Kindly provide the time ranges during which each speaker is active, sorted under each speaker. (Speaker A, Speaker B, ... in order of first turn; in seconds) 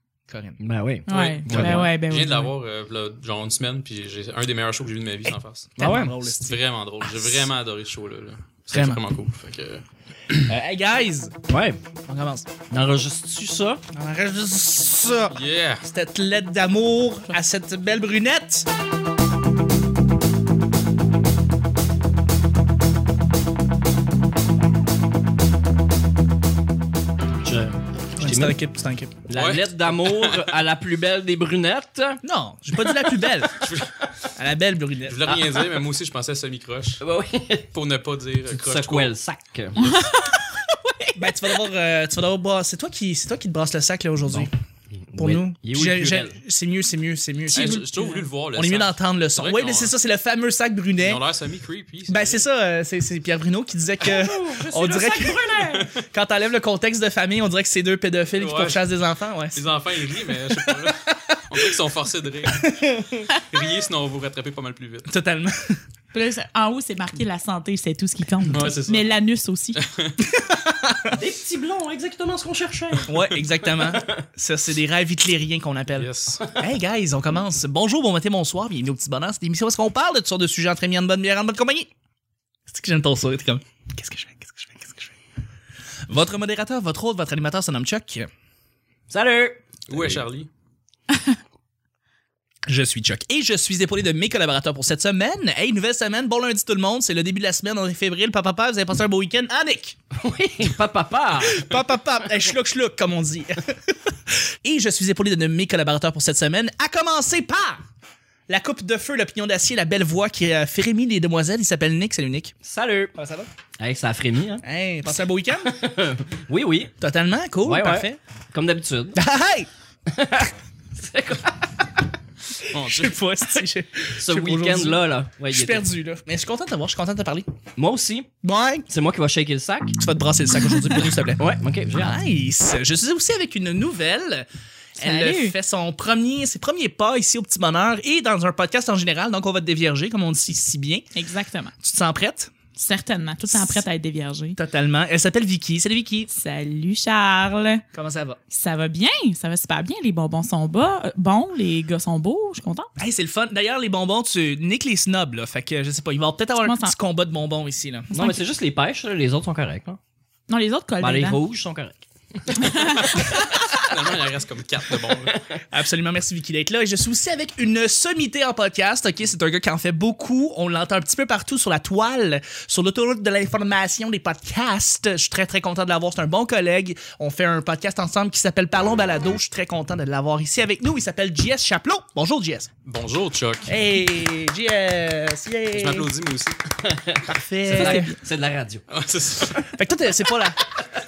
Speaker A: 0.3-0.6, 5.8-7.5, 8.7-9.0, 10.5-11.3, 12.1-12.5, 13.9-18.7, 28.2-29.1, 32.2-33.6, 34.4-35.2, 41.2-44.5, 45.2-47.9, 48.5-51.2, 52.1-59.6, 60.3-61.6, 62.5-63.3, 65.1-65.8, 70.2-71.1, 73.1-81.9, 82.7-85.2, 86.1-88.3, 92.7-100.0, 101.4-103.7, 104.3-107.8, 108.5-112.5, 113.2-113.5, 114.6-115.8, 117.0-118.2, 119.1-119.7, 122.6-127.5, 128.4-128.9, 130.0-131.4, 132.0-134.5, 135.0-141.1, 141.8-142.5, 143.4-143.8, 144.6-146.3, 147.9-148.4, 153.0-158.1, 165.7-182.7, 183.7-186.1, 187.3-188.1, 189.7-190.6
Speaker B: 0.6-1.9, 5.8-6.2, 11.5-11.8, 12.7-13.8, 27.4-28.6, 29.3-32.2, 35.3-35.6, 37.0-37.7, 38.5-40.0, 45.1-46.4, 54.0-55.9, 71.1-74.2, 89.1-90.2, 100.1-101.8, 112.6-113.2, 113.8-114.6, 115.6-116.9, 117.6-119.2, 120.1-121.9, 124.2-125.9, 127.8-128.3, 128.9-130.0, 131.4-132.2, 158.1-160.0, 161.0-162.7, 186.8-188.8
Speaker C: 1.1-2.5, 39.8-41.6, 47.5-48.3, 66.1-69.8, 135.0-135.6, 141.2-141.7, 142.8-144.6, 146.3-147.8, 148.5-152.9, 156.6-156.9, 158.1-158.4, 160.5-161.4, 162.5-163.7, 187.7-188.1
Speaker D: 1.1-9.8, 15.3-15.9, 29.3-30.5, 33.5-34.0, 35.1-37.0, 37.7-39.1, 47.5-49.9, 51.0-52.4, 58.4-58.9, 59.5-65.1, 68.5-69.2, 69.8-70.2, 76.0-76.4, 89.9-90.5, 122.7-123.2, 163.2-165.4, 182.8-183.7, 185.7-186.6, 188.9-189.7